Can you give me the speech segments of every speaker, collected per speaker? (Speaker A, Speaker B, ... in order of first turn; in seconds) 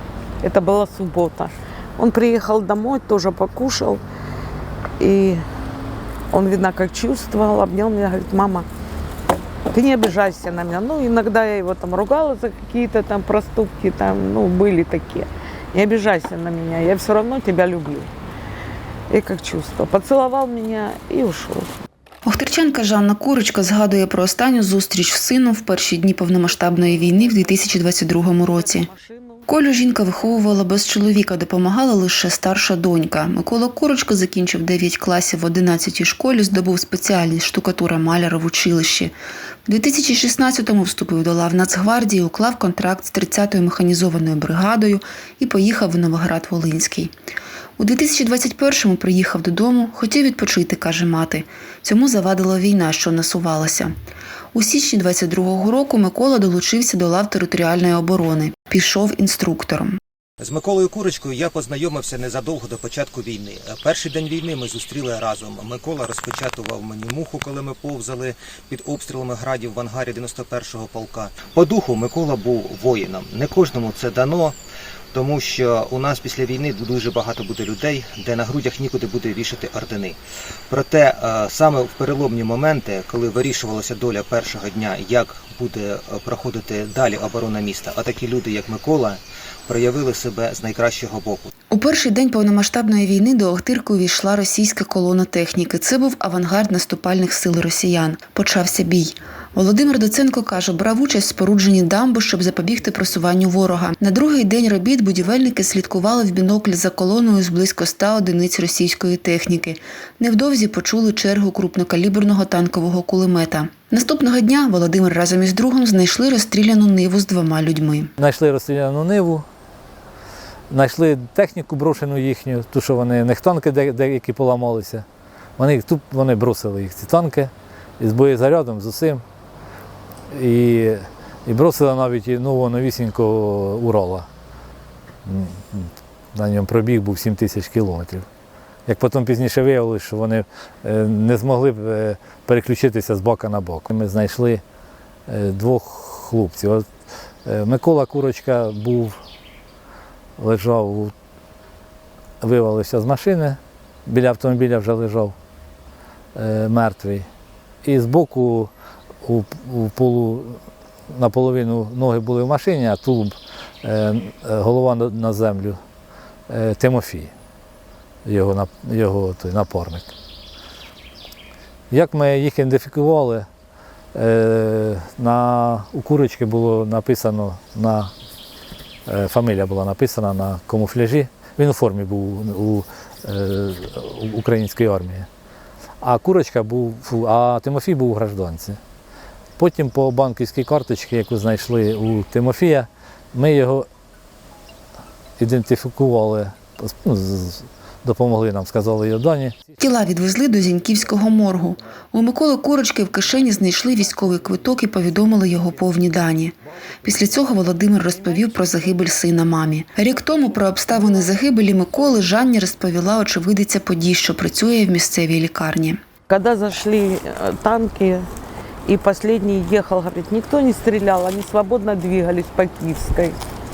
Speaker A: 0.4-4.0, 5.0-5.4, 6.3-8.7, 9.7-18.1, 19.1-21.7, 26.7-29.5, 216.3-218.2, 218.8-223.4
Speaker B: 22.2-28.9, 29.5-39.1, 39.6-47.1, 47.8-53.9, 54.5-60.0, 91.7-118.1, 199.8-216.0
Speaker C: 60.4-74.5, 75.1-80.2, 80.7-91.5
Speaker D: 118.2-119.5, 120.7-125.0, 125.6-129.2, 130.3-134.3, 135.2-138.2, 138.9-144.6, 145.3-146.8, 147.4-149.2, 150.4-151.1, 152.4-155.3, 156.3-157.2, 157.8-158.7, 159.2-160.6, 161.1-165.8, 166.5-167.3, 168.2-170.1, 171.9-173.4, 174.1-178.1, 179.1-185.2, 186.0-188.8, 189.6-193.9, 195.4-199.6